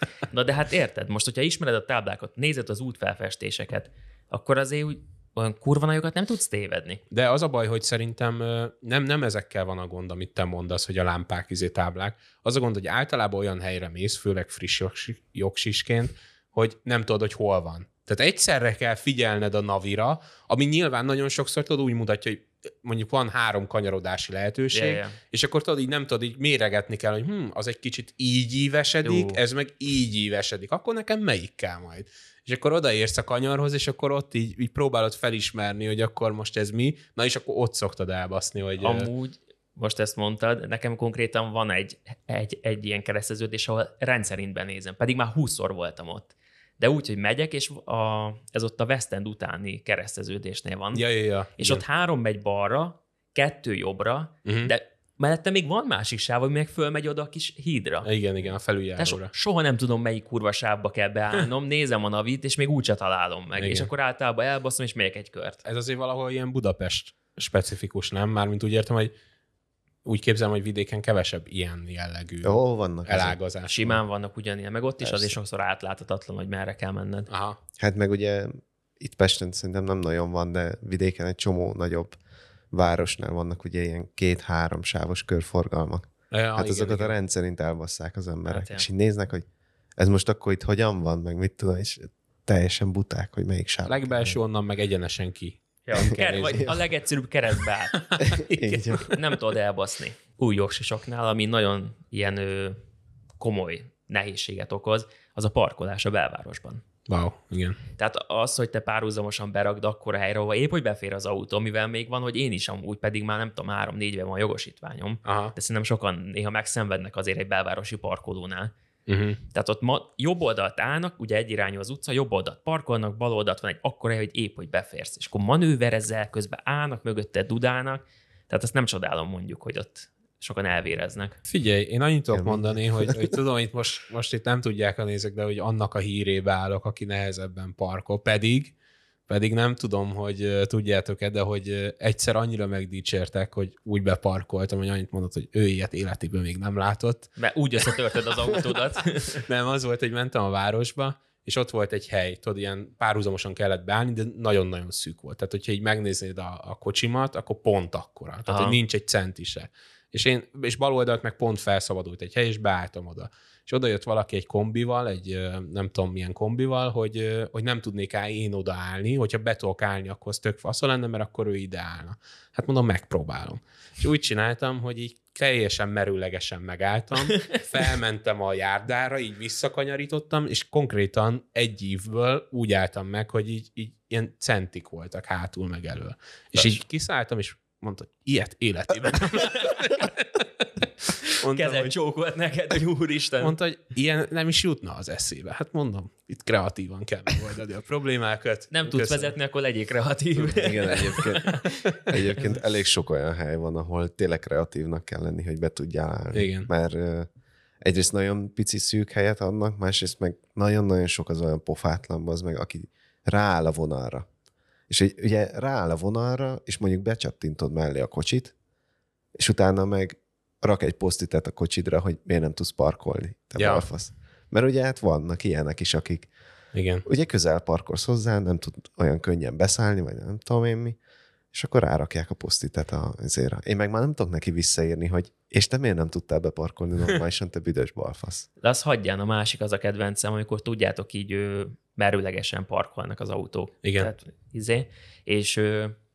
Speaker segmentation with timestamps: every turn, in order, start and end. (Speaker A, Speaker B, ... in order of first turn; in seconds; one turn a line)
Speaker A: 0.3-7.0
Speaker B: 7.1-39.1
Speaker A: 24.7-25.2
Speaker A: 29.0-29.4
Speaker A: 38.8-58.1
Speaker B: 50.9-51.8
Speaker B: 54.5-54.7
Speaker B: 58.0-59.3
Speaker A: 59.0-65.6
Speaker B: 63.6-63.9
Speaker B: 65.6-69.1
Speaker B: 70.0-74.0
Speaker C: 72.4-73.4
Speaker A: 73.7-77.3
Speaker C: 75.0-75.3
Speaker B: 77.3-77.6
Speaker C: 77.8-82.2
Speaker C: 82.7-89.5
Speaker B: 86.3-87.1
Speaker A: 88.5-88.8
Speaker C: 90.0-94.4
Speaker B: 93.9-96.7
Speaker A: 95.8-98.2
Speaker C: 96.0-96.8
Speaker B: 98.1-99.2
Speaker C: 98.2-99.1
Speaker A: 99.1-102.8
Speaker A: 103.4-106.8
Speaker B: 107.1-107.8
Speaker A: 108.0-118.7
Speaker B: 115.2-115.5
Speaker B: 119.1-119.4
Speaker A: 119.5-131.4
Speaker B: 131.4-138.7
Speaker C: 132.3-133.3
Speaker B: 139.3-147.3
Speaker A: 147.4-149.4
Speaker B: 149.3-191.9
Speaker A: 158.5-158.8
Speaker A: 186.5-186.8
Speaker A: 189.3-190.0
Speaker A: 191.3-193.6
Speaker B: 193.4-199.3
Speaker A: 198.7-202.5
Speaker C: 200.4-207.3
Speaker B: 206.3-206.7
Speaker C: 207.8-214.3
Speaker C: 214.9-218.5
Speaker C: 219.4-226.3
Speaker B: 223.6-223.8
Speaker B: 226.7-227.0
Speaker C: 227.0-231.0
Speaker C: 231.5-238.5
Speaker A: 238.6-245.9
Speaker B: 243.8-244.1